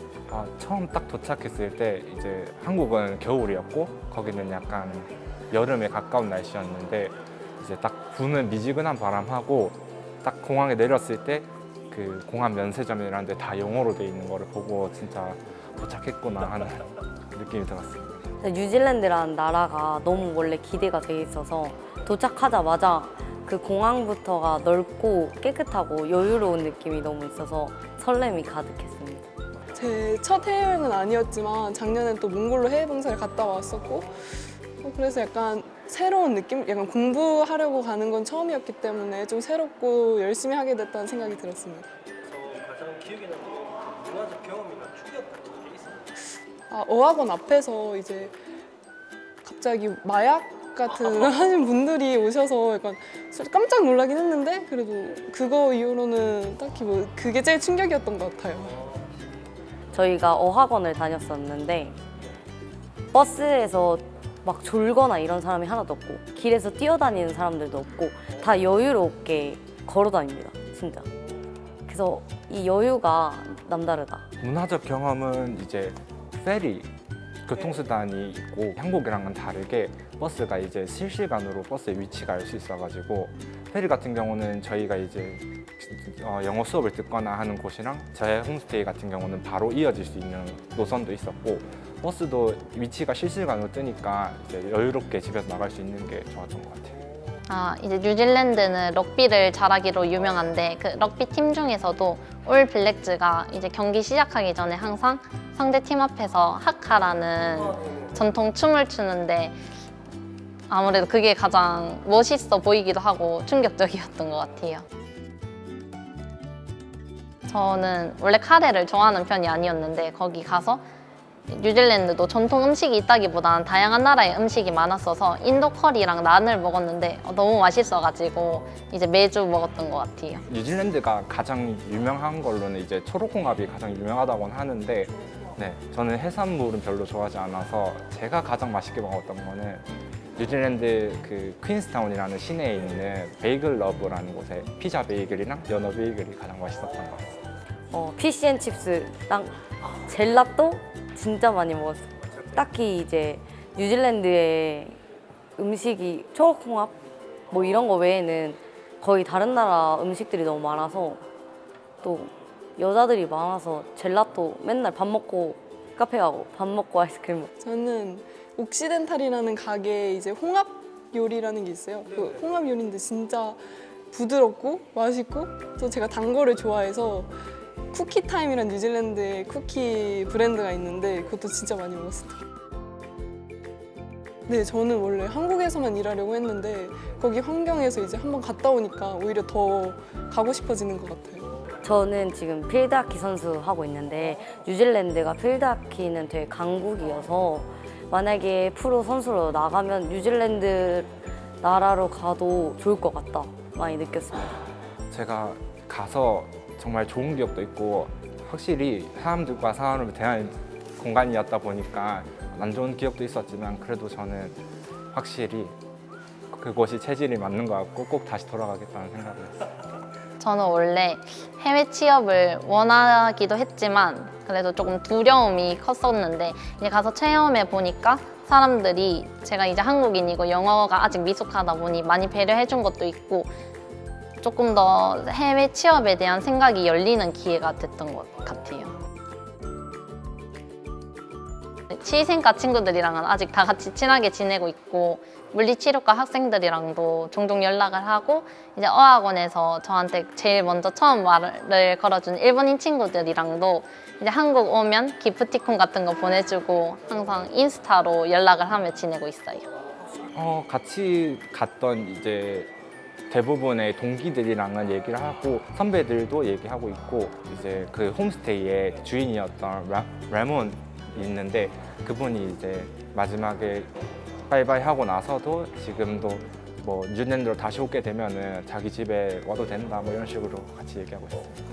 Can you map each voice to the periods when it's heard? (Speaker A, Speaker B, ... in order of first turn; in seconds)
Speaker A: 0.3-18.2, 74.4-76.9, 77.4-97.0, 130.5-139.8, 140.3-147.3, 205.1-214.6, 215.1-215.8, 216.5-219.7, 260.3-262.7, 263.3-273.9, 274.5-281.6
Speaker B: 18.4-29.3, 59.9-62.0, 63.1-71.1, 71.9-74.2, 147.9-155.0, 155.6-157.0, 157.5-161.2, 162.0-167.5, 191.8-201.1, 201.6-204.6
Speaker C: 29.7-41.9, 46.7-48.3, 49.4-58.8, 167.6-173.6, 174.1-177.3, 177.9-182.4, 184.5-191.5
Speaker D: 42.8-45.3
Speaker E: 97.5-109.6, 110.7-114.8, 117.5-120.8, 121.5-130.4, 220.4-233.5, 234.4-238.9, 241.9-259.6